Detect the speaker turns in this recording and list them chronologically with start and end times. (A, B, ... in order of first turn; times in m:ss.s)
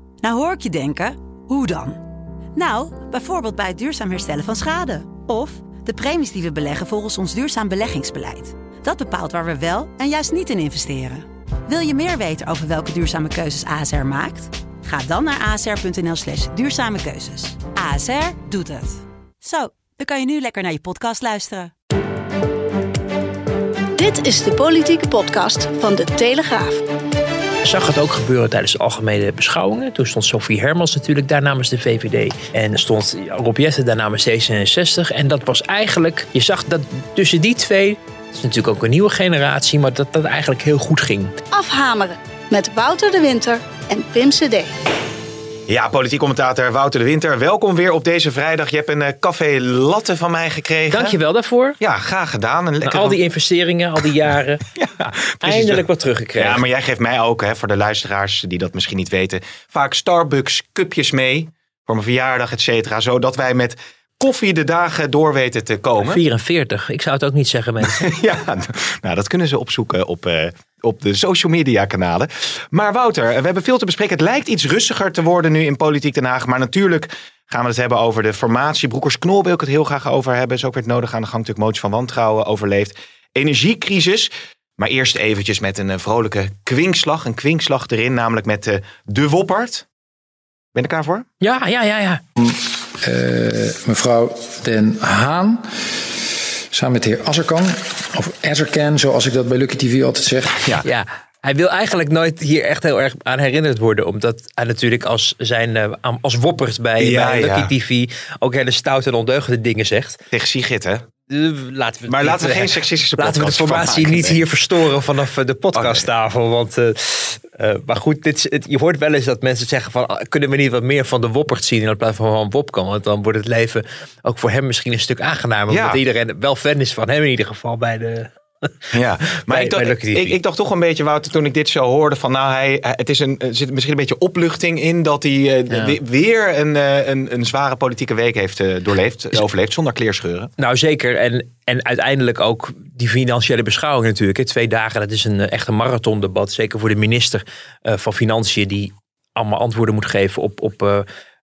0:00.2-0:02.0 A
0:02.5-0:21.7 A
0:23.9-0:26.8 B
0:27.6-0:41.4 C
0:41.5-0:44.7 B
0:45.7-0:51.2 D
0:50.9-0:51.8 C
0:51.8-0:53.2 D
0:52.8-0:54.6 C
0:54.8-0:55.8 D
0:55.4-0:56.6 C
0:56.4-1:06.2 D
1:06.0-1:08.1 C
1:07.8-1:29.8 D
1:30.7-1:31.2 D
1:31.4-1:32.2 C
1:32.4-1:36.1 E
1:36.7-1:40.6 E
1:40.8-1:50.2 C
1:47.0-1:47.7 D
1:50.3-1:51.0 D
1:51.3-2:10.4 C
1:52.1-1:54.4 D
1:55.7-1:56.0 D
2:05.7-2:06.0 D
2:08.9-2:20.5 D
2:15.7-2:16.0 C
2:20.6-2:31.0 C